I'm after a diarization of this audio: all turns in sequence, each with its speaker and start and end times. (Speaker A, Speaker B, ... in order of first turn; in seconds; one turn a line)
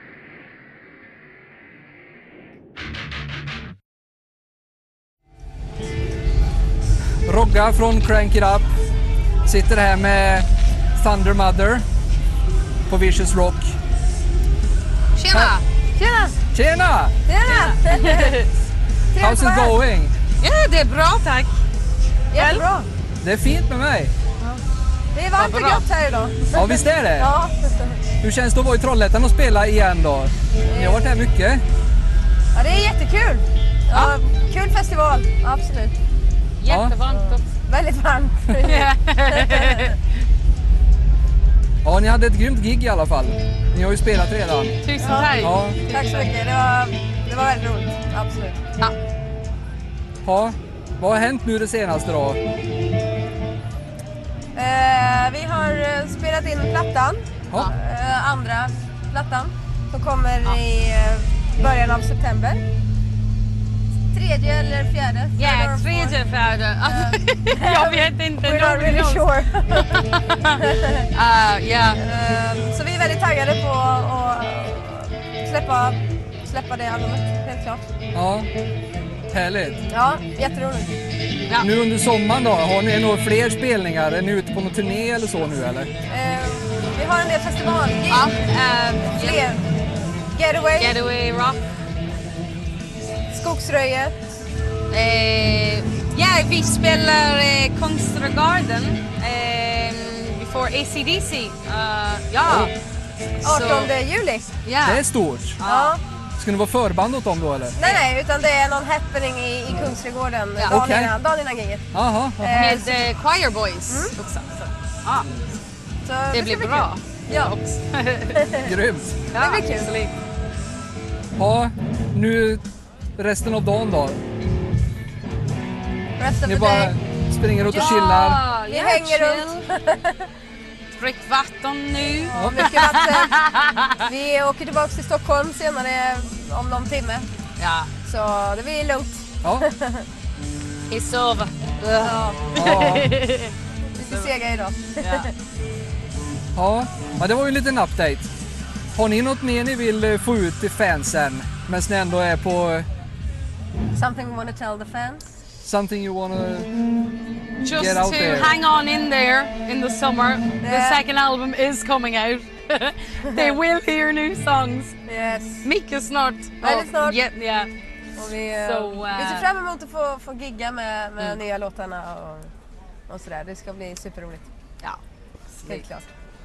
Speaker A: 7.2-8.7
Speaker A: 9.4-11.8
Speaker A: 12.9-13.7
Speaker B: 15.2-15.6
Speaker A: 15.3-15.6
Speaker C: 16.0-16.3
Speaker A: 16.5-17.1
Speaker C: 17.2-18.4
Speaker B: 17.4-18.5
Speaker C: 19.1-19.8
Speaker A: 19.2-20.1
Speaker B: 20.4-21.5
Speaker C: 22.3-22.9
Speaker B: 22.3-22.6
Speaker A: 23.2-24.1
Speaker C: 25.1-28.0
Speaker B: 25.4-25.9
Speaker A: 26.5-27.3
Speaker A: 28.2-31.6
Speaker C: 30.7-31.1
Speaker C: 32.5-35.9
Speaker B: 36.6-37.5
Speaker A: 36.7-36.9
Speaker C: 37.1-40.0
Speaker B: 38.6-40.0
Speaker A: 41.8-44.8
Speaker B: 44.8-46.3
Speaker C: 45.0-48.6
Speaker A: 45.4-45.8
Speaker A: 50.2-52.4
Speaker C: 54.5-62.6
Speaker C: 64.1-66.2
Speaker B: 65.4-72.0
Speaker C: 66.8-70.0
Speaker C: 70.6-71.1
Speaker C: 72.0-77.8
Speaker A: 78.1-78.5
Speaker A: 79.3-79.8
Speaker C: 79.9-80.9
Speaker A: 81.6-85.9
Speaker C: 86.1-88.3
Speaker B: 88.1-89.4
Speaker C: 89.0-89.6
Speaker C: 90.3-91.0
Speaker B: 90.8-91.6
Speaker C: 93.3-94.1
Speaker B: 94.9-102.7
Speaker B: 103.4-103.9
Speaker C: 103.4-104.5
Speaker B: 104.6-105.0
Speaker A: 104.8-105.6
Speaker B: 105.6-106.0
Speaker C: 105.6-106.0
Speaker A: 106.4-107.7
Speaker C: 107.8-111.8
Speaker A: 110.6-111.1
Speaker A: 111.9-112.5
Speaker C: 112.4-113.1
Speaker B: 112.5-115.3
Speaker C: 113.9-114.1
Speaker C: 116.0-117.5
Speaker B: 116.3-118.5
Speaker C: 118.3-118.7
Speaker A: 118.6-119.1
Speaker B: 119.3-120.1
Speaker C: 119.3-119.9
Speaker A: 121.4-122.6
Speaker A: 123.2-124.2
Speaker C: 126.2-126.9
Speaker A: 126.4-128.4
Speaker C: 127.6-128.1
Speaker B: 127.7-129.7
Speaker C: 128.7-130.2
Speaker B: 130.9-134.1
Speaker C: 132.3-133.4
Speaker A: 132.3-132.6
Speaker C: 134.0-137.2
Speaker B: 137.6-137.9
Speaker C: 138.0-140.1
Speaker A: 139.4-139.7
Speaker B: 140.9-143.5
Speaker C: 142.0-142.5
Speaker A: 142.5-143.2
Speaker C: 143.9-145.3
Speaker B: 145.0-145.3
Speaker A: 146.5-148.3
Speaker A: 148.9-152.9
Speaker C: 153.9-155.2
Speaker A: 155.6-156.7
Speaker B: 157.6-164.9
Speaker A: 157.6-158.6
Speaker C: 160.6-161.0
Speaker C: 163.3-163.5
Speaker C: 165.1-165.7
Speaker B: 165.6-167.7
Speaker C: 166.6-167.2
Speaker C: 168.2-172.5
Speaker B: 168.5-169.4
Speaker C: 173.1-174.5
Speaker C: 175.7-176.1